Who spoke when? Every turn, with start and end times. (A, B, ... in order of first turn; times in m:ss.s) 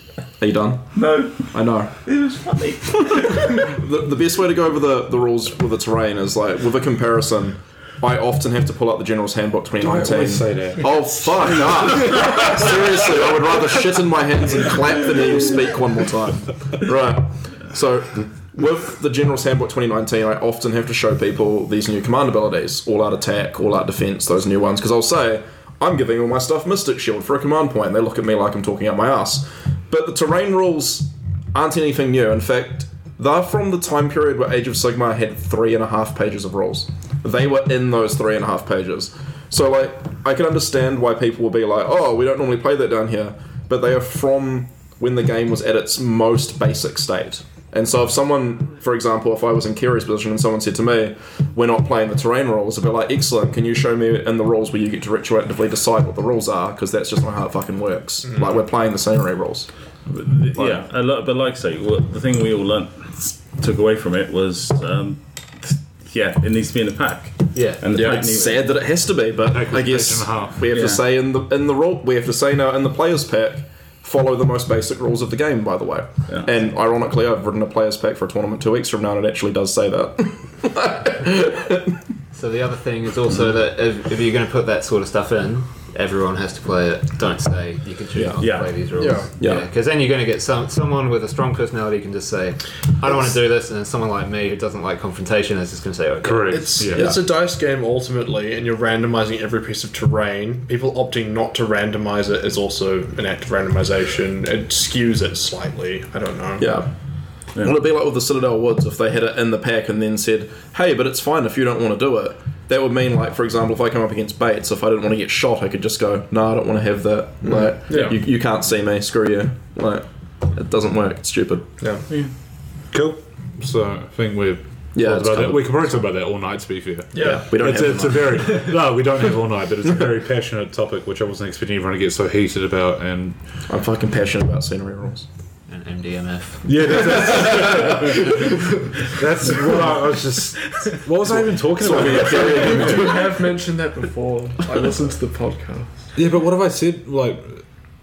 0:00.4-0:01.9 A
0:00.9-0:03.7 B
0:03.6-0:59.7 A
0:09.8-0:12.7 C
0:58.2-0:58.6 D
1:00.1-1:08.7 B
1:00.6-1:00.8 A
1:07.5-1:08.0 E
1:07.9-1:21.9 A
1:09.5-1:10.7 C
1:10.7-1:11.0 B
1:22.3-1:36.8 E
1:28.1-1:28.4 A
1:28.4-1:28.7 B
1:29.0-1:29.3 D
1:29.4-1:29.6 A
1:36.2-1:37.1 C
1:36.5-1:46.8 D
1:36.9-1:37.2 A
1:46.6-1:46.9 A
1:47.5-2:01.7 A
1:57.4-1:58.2 D
2:02.9-2:13.4 C
2:04.9-2:06.0 A
2:07.1-2:07.4 D
2:07.2-2:08.6 A
2:13.7-2:15.3 A
2:15.7-2:17.8 E
2:16.6-2:18.3 C
2:19.0-2:23.3 C
2:21.8-2:23.2 A
2:21.9-2:26.0 D
2:26.1-2:27.6 C